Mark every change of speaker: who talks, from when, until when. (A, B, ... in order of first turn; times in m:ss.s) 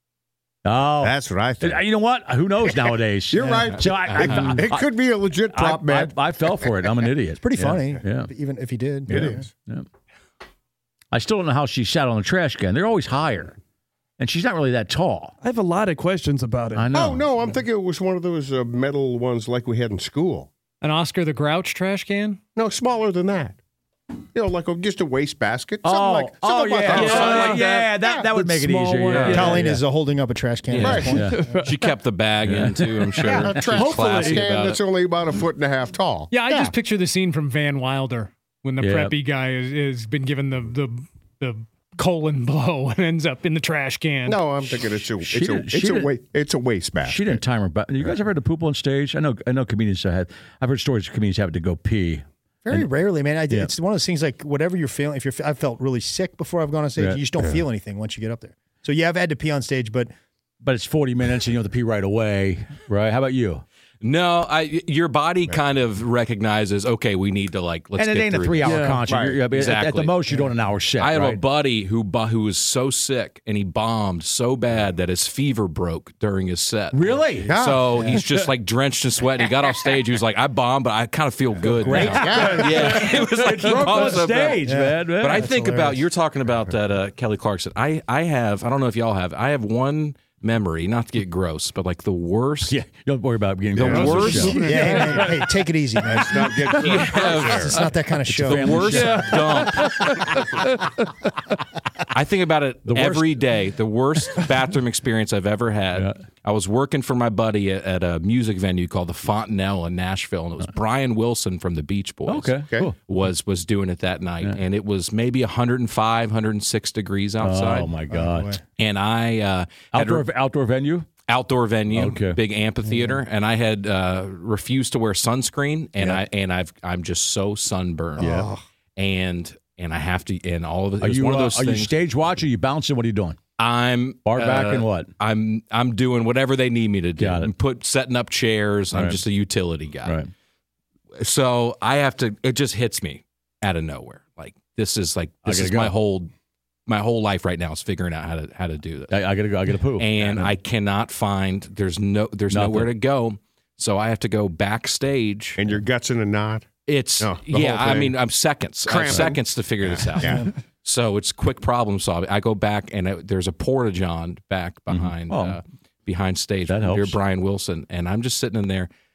0:00.6-0:04.9 A
0:01.0-0:01.8 B
0:02.6-0:06.2 B
0:03.4-0:04.0 C
0:05.5-0:08.3 A
0:07.4-0:09.4 C
0:09.1-0:09.5 B
0:09.1-0:09.8 A
0:11.1-0:13.6 A
0:14.2-0:15.3 A
0:15.4-0:16.9 D
0:16.7-0:17.3 A
0:16.9-0:20.5 B
0:20.8-0:22.4 E
0:22.6-0:23.6 B
0:24.3-0:28.3 B
0:25.8-0:29.8 A
0:26.9-0:29.6 D
0:29.1-0:29.5 F
0:29.3-0:31.6 C
0:30.7-0:34.8 F
0:30.8-0:31.2 B
0:30.8-0:31.4 A
0:32.4-0:34.4 A
0:33.3-0:36.7 B
0:36.3-0:44.6 E
0:38.8-0:39.1 A
0:44.2-0:47.4 B
0:45.2-0:46.1 A
0:47.0-0:52.9 A
0:52.6-1:00.1 C
0:57.0-0:57.3 A
1:00.6-1:03.6 A
1:04.0-1:10.4 F
1:08.0-1:11.4 A
1:08.6-1:09.0 D
1:09.0-1:09.4 B
1:11.0-1:32.7 F
1:16.9-1:17.5 A
1:17.5-1:18.1 B
1:17.9-1:18.2 C
1:21.8-1:25.9 A
1:21.8-1:22.2 C
1:22.0-1:22.9 B
1:23.9-1:25.9 C
1:32.6-1:34.6 A
1:33.7-1:34.6 B
1:33.8-1:34.5 F
1:34.4-1:35.4 D
1:34.4-1:39.4 C
1:36.0-1:37.8 B
1:36.5-1:36.9 D
1:36.7-1:40.1 F
1:38.3-1:39.3 A
1:38.9-1:40.8 D
1:42.1-1:57.9 F
1:42.8-1:43.4 A
1:52.2-1:52.9 A
1:57.4-1:58.6 A
1:58.1-1:58.6 C
1:58.8-2:00.3 F
1:59.9-2:01.1 A
2:01.3-2:08.4 F
2:01.9-2:02.4 A
2:02.8-2:03.2 C
2:08.2-2:08.6 C
2:08.2-2:08.5 A
2:09.0-2:11.9 F
2:11.0-2:13.4 A
2:13.6-2:20.2 F
2:14.2-2:15.1 A
2:17.2-2:17.5 A
2:18.9-2:19.2 A
2:20.0-2:20.3 A
2:21.2-2:26.3 F
2:25.4-2:26.0 A
2:26.9-2:29.2 F
2:29.1-2:30.5 A
2:30.0-2:35.6 F
2:32.5-2:32.9 A
2:35.6-2:36.6 B
2:36.8-2:48.9 F
2:37.2-2:38.2 B
2:38.8-2:40.5 B
2:39.1-2:39.4 A
2:44.9-2:45.6 A
2:46.7-2:47.2 A